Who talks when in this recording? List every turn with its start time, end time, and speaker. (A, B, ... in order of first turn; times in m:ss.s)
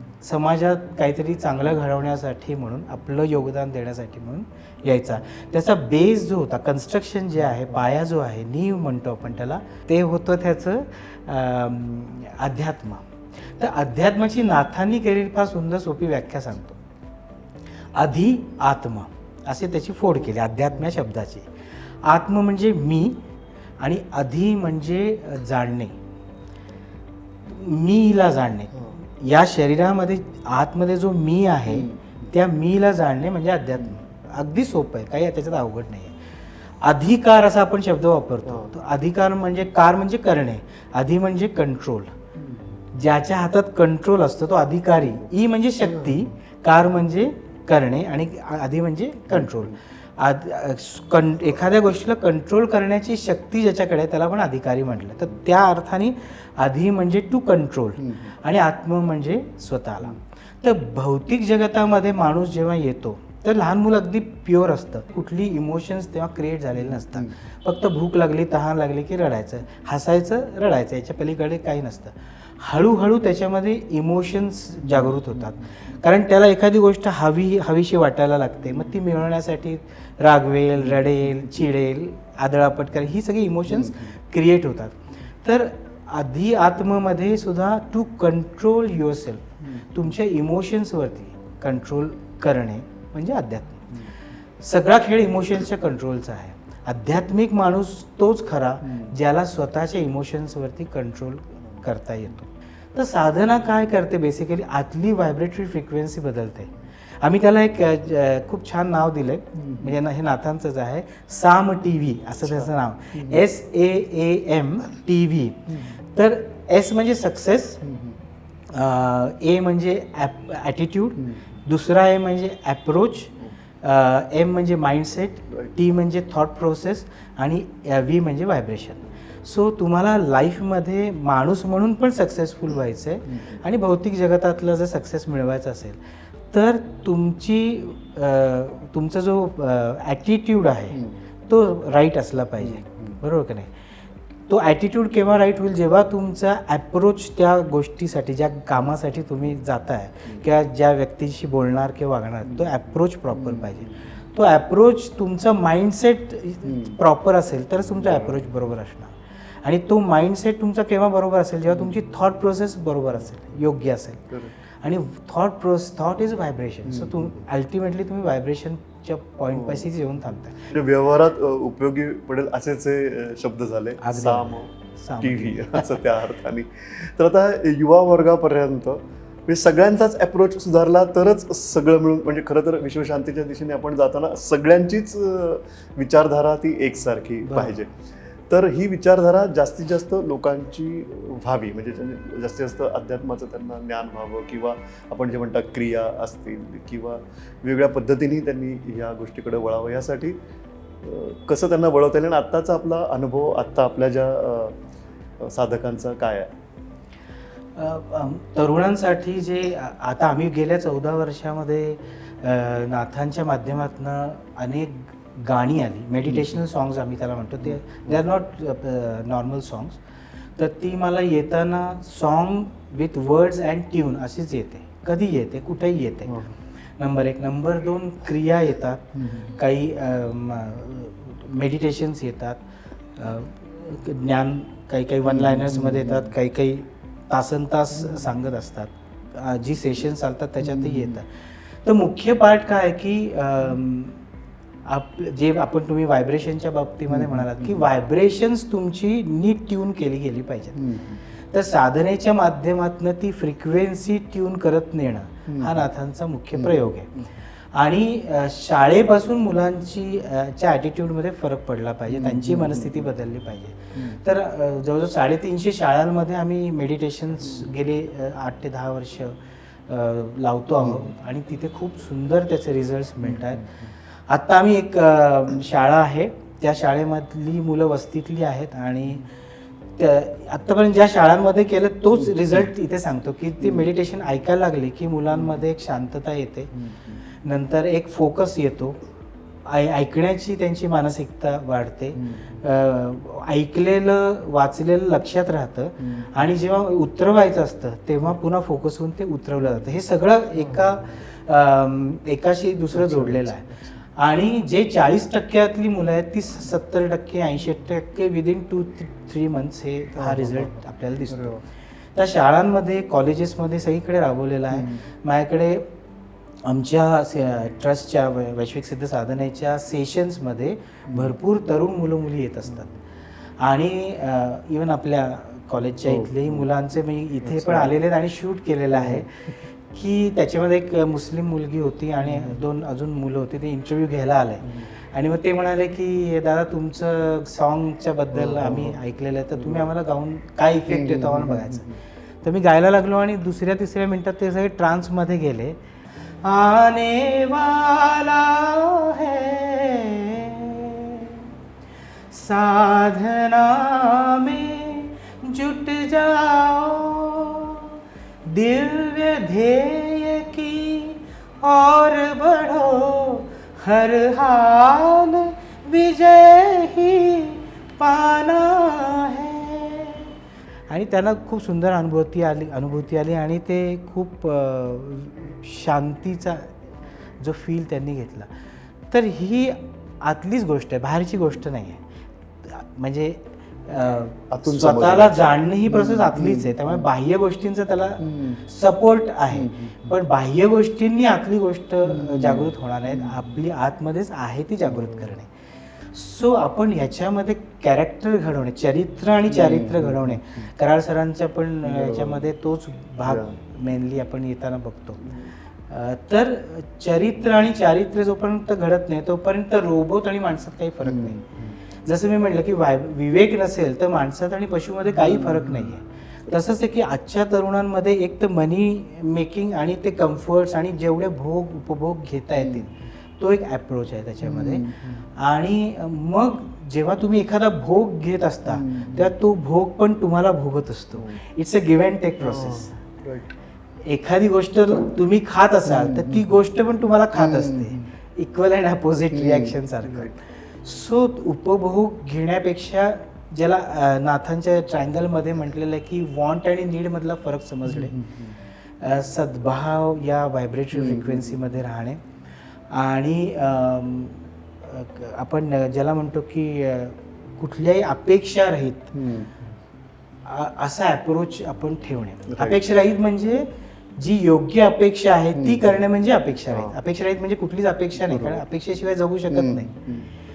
0:00.2-0:13.0 A
0:13.6-0:16.8 A
0:17.9-0:21.5 A
0:22.0-0:23.2 A
0:23.8-0:26.0 A
0:27.5-0:36.2 A
0:31.7-0:32.0 B
0:36.8-0:42.1 A
0:42.9-1:34.1 A
1:34.6-1:57.8 A
1:57.9-1:58.2 B
1:58.7-2:16.0 A
2:16.5-2:23.7 A
2:22.8-2:23.2 B
2:24.5-2:50.7 A
2:33.5-2:33.8 B
2:36.7-2:37.0 B
2:46.8-2:47.3 B
2:49.5-2:49.9 B
2:50.7-3:07.9 B
2:54.0-2:56.0 A
3:07.4-3:07.8 A
3:08.5-3:20.4 B
3:21.0-3:24.8 B
3:25.4-3:26.5 B
3:27.7-3:40.0 A
3:36.3-3:36.5 B
3:40.6-3:46.4 A
3:46.3-3:46.5 B
3:47.0-3:52.6 A
3:53.2-4:04.2 A
3:55.3-3:56.3 B
4:04.8-4:39.3 A
4:10.8-4:11.2 B
4:22.2-4:22.9 B
4:40.0-4:46.9 A
4:47.4-4:49.0 A
4:49.6-5:11.6 A
5:03.0-5:03.4 B
5:10.2-5:10.8 B
5:11.3-5:11.6 B
5:12.1-5:15.9 A
5:16.6-5:23.0 A
5:23.6-5:45.8 A
5:26.1-5:26.6 B
5:27.4-5:27.9 B
5:29.0-5:29.2 B
5:32.2-5:32.6 B
5:38.3-5:39.0 B
5:40.9-5:41.9 B
5:46.4-5:51.5 A
5:52.3-6:10.3 A
6:10.9-6:16.7 A
6:17.4-6:18.5 A
6:19.1-6:22.0 A
6:22.6-6:35.5 A
6:24.5-6:26.9 B
6:28.2-6:28.6 B
6:29.5-6:30.1 B
6:32.0-6:33.4 B
6:36.1-6:45.3 A
6:39.5-6:40.5 B
6:41.8-6:42.4 B
6:45.9-6:51.4 A
6:51.0-6:51.7 B
6:52.0-7:13.0 A
7:04.4-7:05.2 B
7:08.8-7:09.3 B
7:12.4-7:13.5 B
7:14.0-7:28.2 A
7:17.4-7:18.0 B
7:19.4-7:20.3 B
7:27.9-7:28.6 B
7:29.0-7:32.2 A
7:30.9-7:31.6 B
7:32.9-7:39.1 A
7:39.1-7:39.5 B
7:40.4-7:49.9 A
7:42.5-7:42.8 B
7:45.5-7:46.0 B
7:46.7-7:47.0 B
7:48.2-7:48.6 B
7:49.5-7:50.3 B